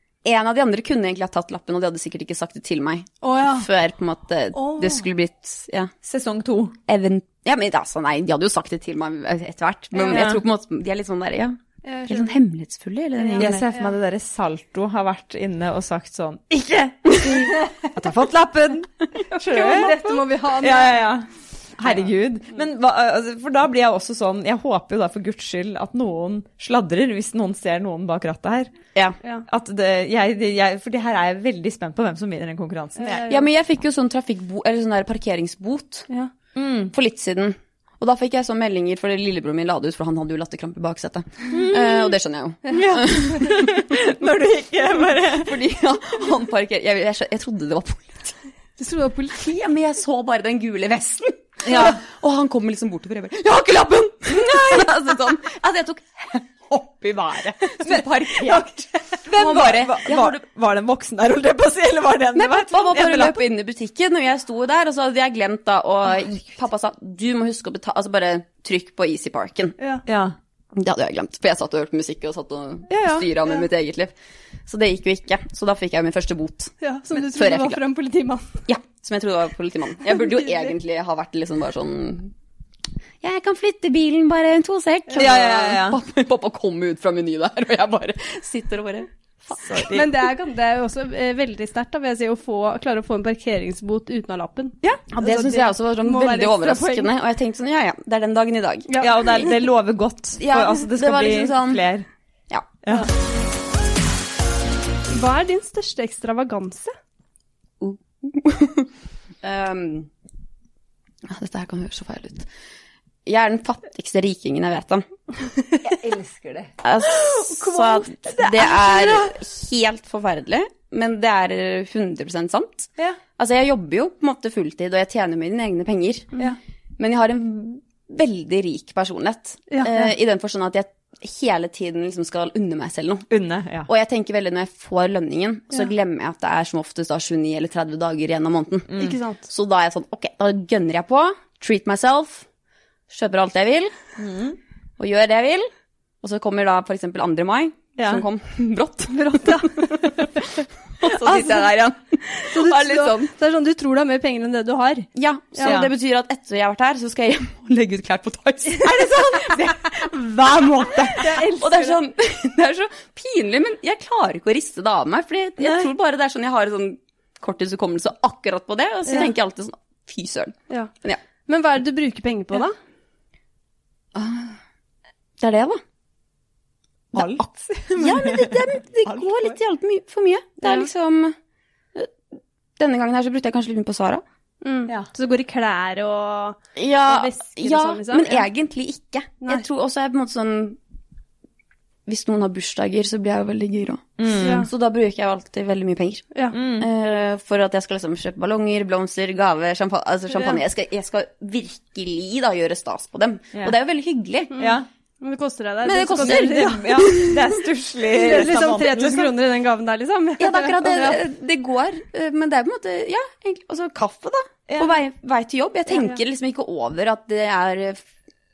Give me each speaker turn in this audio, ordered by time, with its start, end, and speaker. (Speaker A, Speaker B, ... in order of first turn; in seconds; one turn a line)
Speaker A: 0.2-5.9
Speaker B: 3.2-3.7
Speaker B: 4.5-5.0
Speaker C: 6.0-6.7
Speaker A: 6.9-13.6
Speaker B: 10.0-10.3
Speaker C: 10.1-10.4
Speaker B: 11.8-12.4
Speaker B: 13.2-13.9
Speaker C: 13.4-19.9
Speaker A: 19.3-20.1
Speaker B: 19.5-21.1
Speaker C: 20.6-28.7
Speaker C: 29.5-33.2
Speaker B: 33.0-33.5
Speaker A: 33.3-36.1
Speaker C: 36.5-36.9
Speaker A: 36.9-44.0
Speaker C: 41.5-42.1
Speaker C: 42.7-45.5
Speaker A: 45.2-48.4
Speaker B: 48.8-49.5
Speaker A: 49.4-60.4
Speaker C: 51.6-52.0
Speaker C: 57.8-58.6
Speaker C: 59.2-63.4
Speaker A: 62.3-69.7
Speaker B: 69.8-70.0
Speaker C: 70.0-70.3
Speaker A: 70.7-74.1
Speaker C: 72.9-73.2
Speaker A: 74.7-77.8
Speaker B: 76.8-78.6
Speaker A: 78.7-82.3
Speaker A: 83.2-90.0
Speaker C: 85.2-86.0
Speaker C: 89.6-90.0
Speaker B: 89.9-97.1
Speaker A: 95.1-98.9
Speaker B: 98.9-99.5
Speaker C: 99.0-102.0
Speaker A: 100.4-101.8
Speaker B: 105.1-106.9
Speaker A: 107.8-108.9
Speaker A: 109.4-110.1
Speaker A: 111.2-112.5
Speaker A: 113.2-115.8
Speaker C: 115.8-119.3
Speaker A: 116.8-126.3
Speaker A: 127.0-133.2
Speaker B: 129.7-130.1
Speaker C: 133.3-133.9
Speaker A: 133.9-142.5
Speaker C: 138.9-139.2
Speaker B: 139.0-139.4
Speaker A: 143.1-143.9
Speaker C: 144.2-144.6
Speaker A: 145.0-145.7
Speaker A: 146.2-153.3
Speaker C: 148.0-148.2
Speaker B: 149.2-150.0
Speaker B: 151.2-151.7
Speaker B: 152.3-155.8
Speaker A: 155.1-171.2
Speaker C: 155.6-155.9
Speaker B: 158.8-159.4
Speaker C: 159.2-159.5
Speaker C: 160.4-161.2
Speaker B: 161.1-162.0
Speaker B: 171.5-172.7
Speaker A: 174.1-174.6
Speaker A: 175.4-175.8
Speaker A: 177.1-177.4
Speaker C: 177.1-179.5
Speaker A: 177.9-181.3
Speaker B: 180.6-180.9
Speaker A: 181.9-182.2
Speaker A: 182.8-184.2
Speaker B: 184.6-188.5
Speaker A: 186.8-190.8
Speaker A: 192.1-194.1
Speaker C: 194.2-194.7
Speaker B: 194.4-194.7
Speaker A: 194.6-204.6
Speaker C: 196.5-196.9
Speaker B: 204.5-207.2
Speaker C: 204.6-204.9
Speaker A: 205.8-207.6
Speaker C: 206.2-209.3
Speaker B: 208.1-211.2
Speaker A: 210.4-218.0
Speaker C: 214.7-214.9